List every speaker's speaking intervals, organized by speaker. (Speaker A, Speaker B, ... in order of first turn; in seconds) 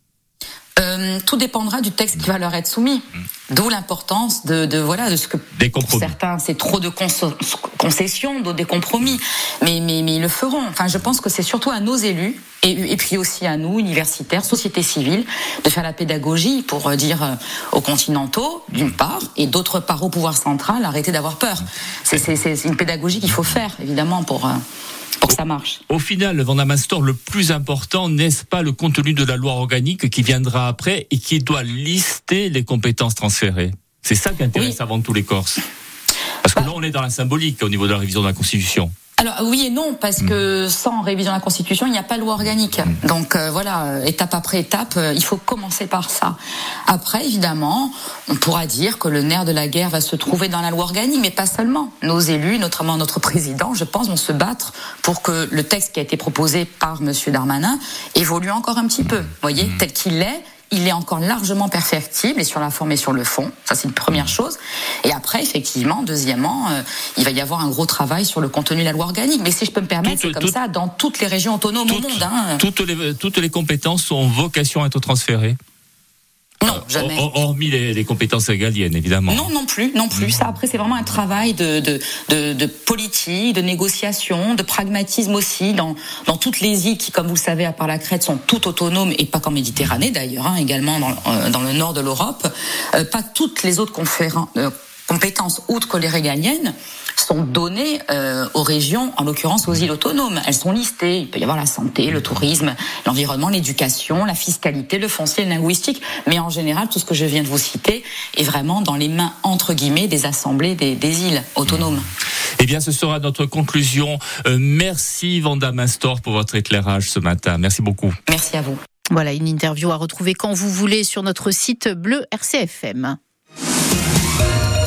Speaker A: 0.8-24.6, 25.2-25.8, 39.2-72.6, 76.6-77.2, 79.3-112.0, 118.3-118.8
Speaker B: 5.5-6.2, 25.3-35.6, 36.5-38.9, 70.0-70.5, 71.9-75.6, 76.7-79.5, 112.6-118.2
Speaker C: 119.1-123.2